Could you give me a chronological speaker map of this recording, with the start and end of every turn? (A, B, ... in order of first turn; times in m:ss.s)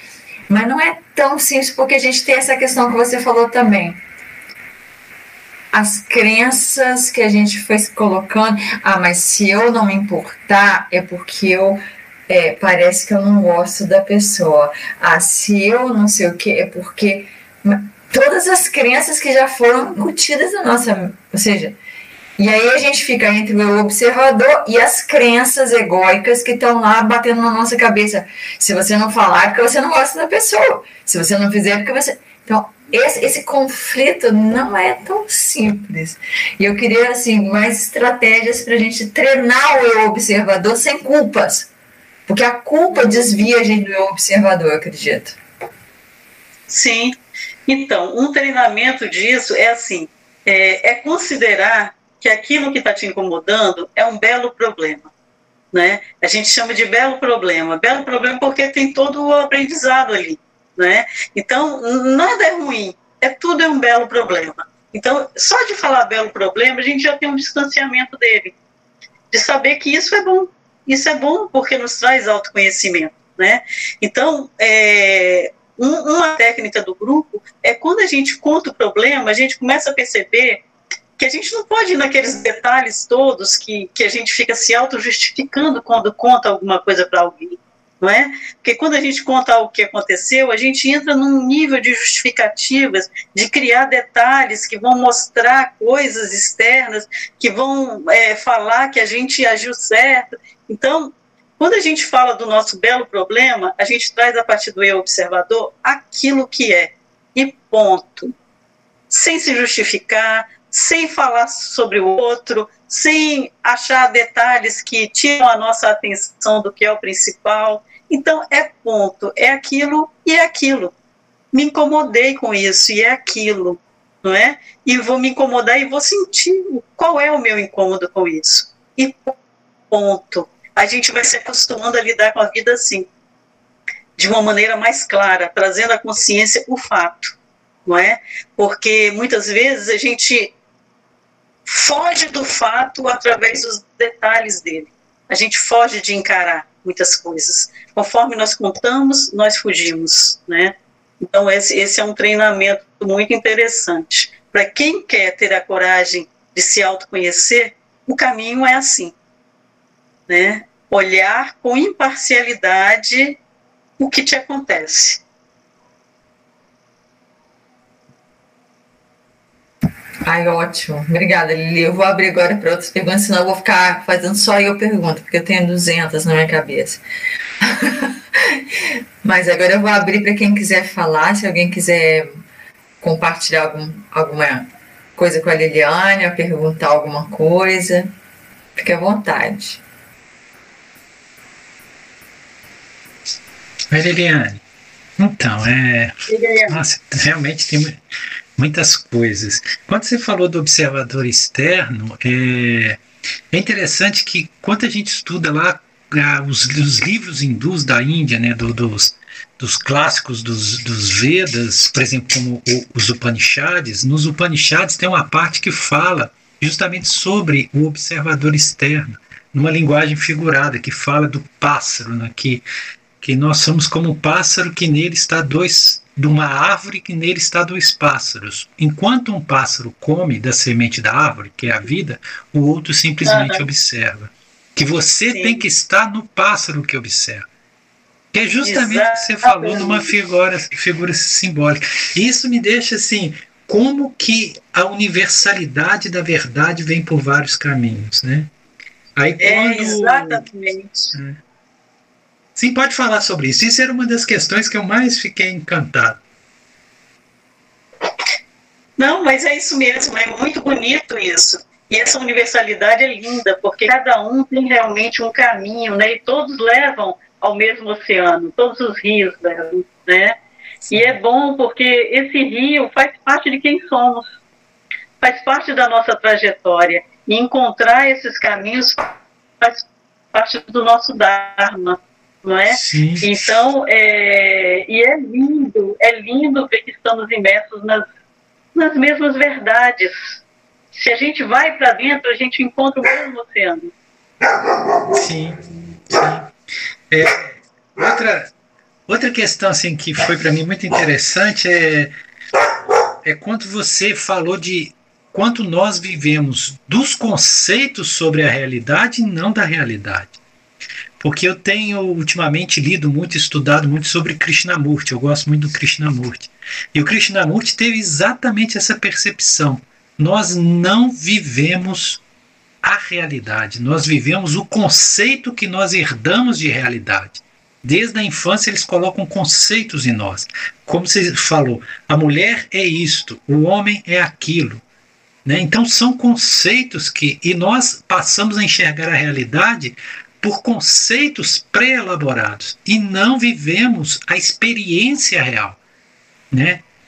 0:00.5-0:04.0 A
0:05.7-0:21.8 A
0:22.4-0:41.7 A
0:42.3-0:45.4 A
0:46.7-0:55.1 B
0:55.7-1:08.5 B
1:09.3-1:20.6 B
1:21.2-1:48.3 B
1:49.1-2:00.9 B
2:01.5-2:09.3 B
2:09.9-2:13.1 B
2:14.2-2:17.3 B
2:17.8-2:20.5 B
2:21.6-2:39.1 B
2:40.3-2:43.4 B
2:44.0-2:45.2 B
2:50.2-2:57.0 A
2:57.6-2:58.6 A
2:59.2-3:02.3 A
3:03.0-3:08.1 A
3:08.8-3:09.8 A
3:13.9-3:14.6 C
3:15.2-3:18.0 C
3:16.3-3:16.8 B
3:18.6-3:42.6 C
3:43.2-3:57.5 C
3:53.2-3:53.6 B
3:55.3-3:55.6 B
3:58.3-4:08.5 C
3:58.6-4:00.1 B
4:09.2-4:10.4 C
4:09.4-4:11.1 B
4:11.1-4:11.4 C
4:12.6-4:16.2 C
4:19.0-4:30.4 B
4:30.9-4:31.2 C
4:30.9-4:34.4 B
4:35.2-4:48.0 B
4:42.7-4:43.3 C
4:48.7-4:50.4 B
4:50.9-4:53.9 B
4:55.1-4:56.5 C
4:57.1-4:58.5 C
4:59.1-5:02.1 C
5:03.2-5:10.4 C
5:11.2-5:22.2 C
5:22.8-5:34.8 C
5:35.4-5:45.8 C
5:46.5-5:46.8 C